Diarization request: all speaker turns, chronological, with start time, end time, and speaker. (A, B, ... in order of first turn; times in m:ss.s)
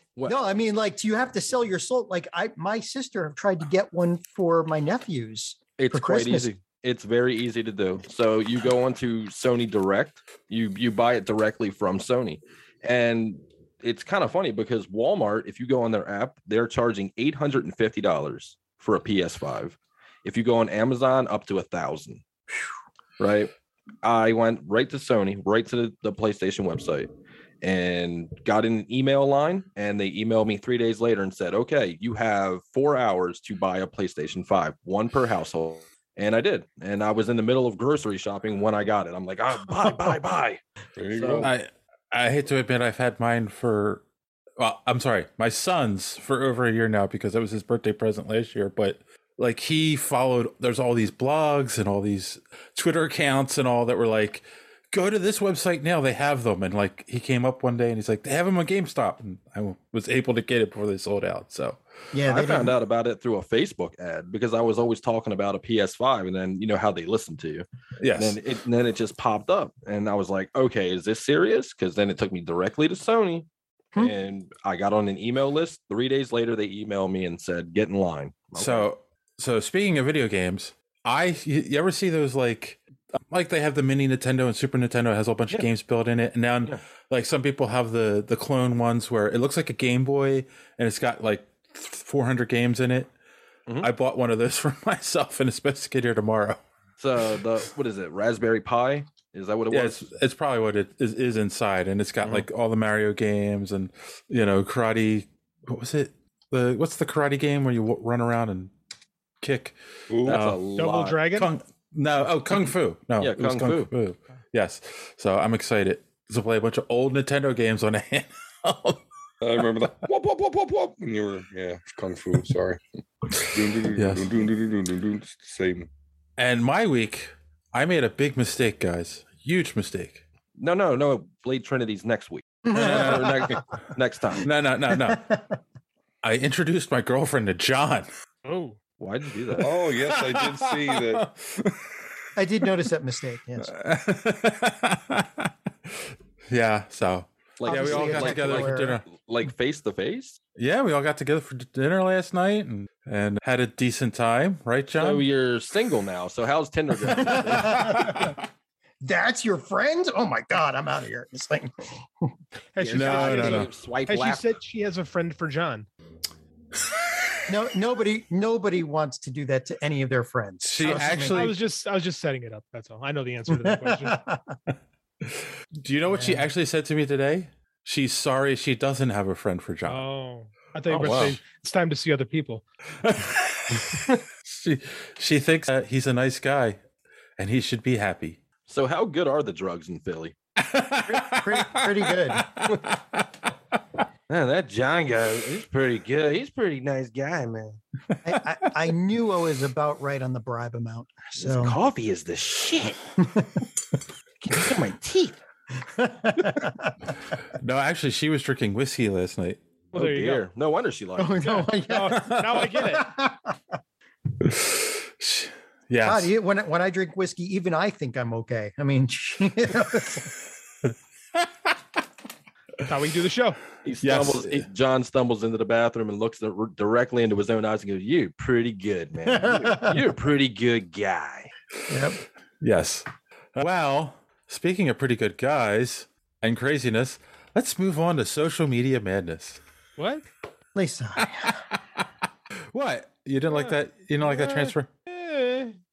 0:00.2-0:06.5 A
0:05.8-0:22.2 B
0:23.2-0:23.5 B
0:24.0-0:27.1 B
0:27.6-0:40.6 B
0:41.0-0:41.5 C
0:41.1-0:41.5 B
0:41.4-0:44.0 D
0:44.6-1:01.8 D
1:02.1-1:02.7 A
1:02.2-1:18.9 B
1:08.0-1:08.4 D
1:18.5-1:33.1 D
1:33.8-1:36.6 D
1:37.0-1:40.1 B
1:39.7-1:48.7 D
1:49.4-1:49.7 D
1:50.1-1:50.4 C
1:50.2-1:51.2 B
1:50.3-1:50.6 D
1:50.8-1:51.5 E
1:51.4-1:59.0 D
1:53.2-1:53.9 B
1:59.4-2:02.8 C
2:03.5-2:05.9 C
2:03.9-2:04.3 D
2:06.4-2:10.2 D
2:10.6-2:14.4 B
2:12.7-2:13.6 A
2:12.7-2:13.6 D
2:14.4-2:15.2 D
2:14.9-2:15.6 A
2:16.2-2:18.1 D
2:18.4-2:18.8 E
2:19.0-2:19.7 B
2:19.6-2:21.2 C
2:19.6-2:21.8 D
2:22.3-2:23.7 A
2:23.7-2:25.5 D
2:26.5-2:29.0 D
2:27.6-2:30.4 B
2:27.6-2:29.0 A
2:30.6-2:35.3 D
2:35.0-2:38.2 B
2:37.1-2:38.3 A
2:39.0-2:42.3 A
2:42.7-2:45.9 E
2:42.8-2:44.5 B
2:42.9-2:43.7 D
2:47.5-2:51.5 A
2:50.6-2:51.6 D
2:50.9-2:54.2 E
2:53.5-2:54.5 A
2:55.2-3:00.0 D
2:56.1-2:56.5 A
2:59.8-3:02.6 E
3:00.9-3:01.4 D
3:01.0-3:01.4 B
3:03.0-3:06.8 D
3:07.4-3:08.4 D
3:08.7-3:10.3 B
3:10.6-3:13.2 D
3:11.1-3:12.5 A
3:14.3-3:17.8 B
3:18.2-3:21.8 A
3:21.4-3:23.0 B
3:23.2-3:23.6 A
3:24.4-3:27.0 A
3:27.6-3:29.6 D
3:29.9-3:31.5 B
3:29.9-3:30.4 E
3:31.2-3:33.6 A
3:31.4-3:33.1 E
3:32.1-3:32.4 D
3:34.4-3:36.3 D
3:36.0-3:40.3 A
3:42.8-3:43.6 E
3:43.8-3:51.5 B
3:44.0-3:44.6 D
3:49.3-3:50.0 A
3:51.9-3:52.2 A
3:52.6-3:59.6 D
4:00.0-4:00.3 E
4:00.7-4:01.6 A
4:01.2-4:02.0 D
4:02.7-4:04.9 D
4:03.5-4:05.7 E